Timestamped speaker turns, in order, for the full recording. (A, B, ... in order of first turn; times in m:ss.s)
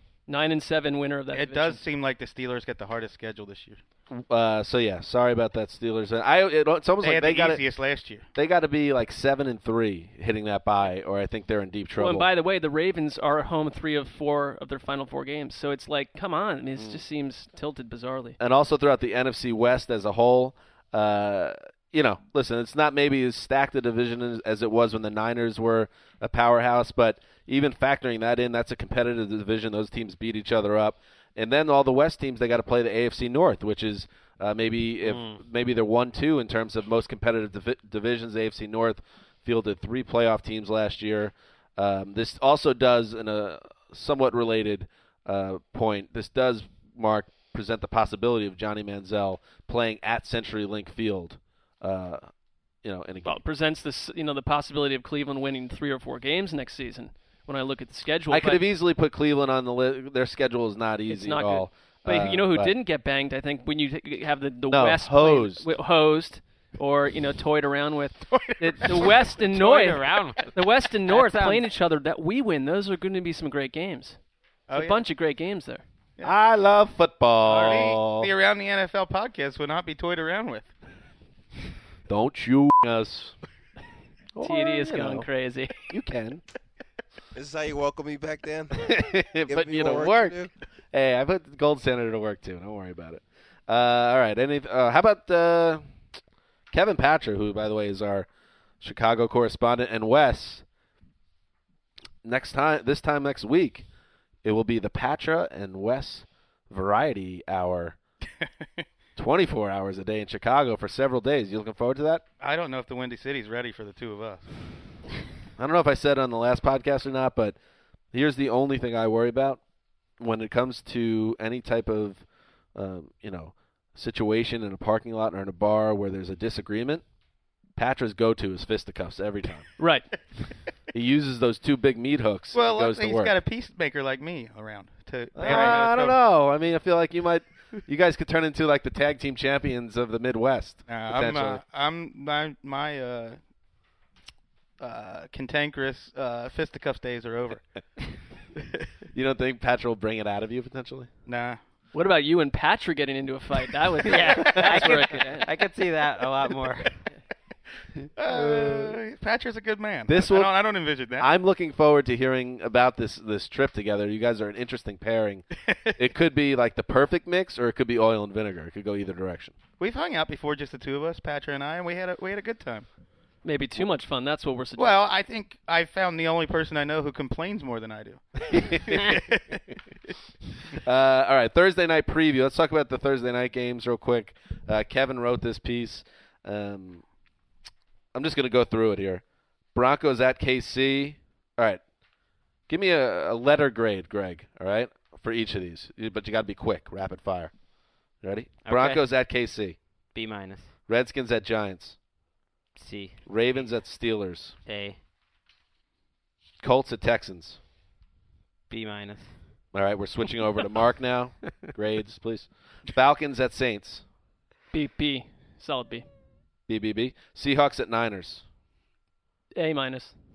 0:00.3-0:01.8 A
0:01.3-0:03.8 B
0:04.1-0:07.6 C
0:07.0-0:08.2 B
0:08.3-0:12.3 C
0:12.0-0:18.4 A
0:16.8-0:17.0 C
0:18.4-0:52.3 C
0:35.0-0:35.4 D
0:52.8-0:53.4 C
0:53.2-0:58.6 A
0:58.3-1:02.7 C
1:01.1-1:14.2 A
1:04.7-1:05.7 C
1:08.3-1:09.1 B
1:09.5-1:10.6 D
1:11.1-1:11.7 D
1:14.7-1:15.0 B
1:14.7-1:15.8 A
1:16.2-1:18.3 C
1:17.4-1:20.7 B
1:22.1-1:23.4 C
1:24.3-1:25.3 C
1:24.4-1:25.8 A
1:25.9-1:26.4 C
1:27.3-1:28.8 E
1:28.7-1:35.8 C
1:29.5-1:30.5 E
1:36.7-1:38.3 C
1:38.8-1:40.6 C
1:42.2-1:43.8 C
1:44.4-1:48.0 C
1:49.2-1:52.2 C
1:52.4-1:54.4 B
1:55.6-1:57.6 C
1:58.1-1:59.6 C
2:00.2-2:02.2 C
2:02.7-2:07.0 C
2:07.8-2:09.7 C
2:09.8-2:10.1 A
2:10.9-2:13.3 C
2:12.5-2:16.2 B
2:15.3-2:21.6 C
2:20.9-2:23.4 B
2:24.8-2:27.6 B
2:29.1-2:31.1 C
2:31.3-2:31.6 B
2:31.9-2:35.5 A
2:34.0-2:37.0 D
2:34.4-2:35.0 C
2:38.2-2:41.3 B
2:38.2-2:39.0 C
2:40.1-2:40.5 C
2:41.2-2:49.5 C
2:49.8-2:52.8 B
2:53.4-2:55.0 A
2:54.8-2:59.6 B
2:58.5-2:59.2 C
3:00.7-3:07.0 C
3:08.1-3:09.2 C
3:09.7-3:11.8 C
3:12.7-3:17.5 C
3:18.2-3:19.8 C
3:18.6-3:19.0 D
3:20.1-3:20.7 D
3:20.9-3:22.0 C
3:22.8-3:23.6 D
3:23.2-3:24.5 C
3:24.6-3:25.0 D
3:26.6-3:27.6 C
3:28.7-3:29.3 D
3:29.7-3:34.0 C
3:34.7-3:36.0 A
3:36.7-3:38.4 C
3:39.5-3:40.1 A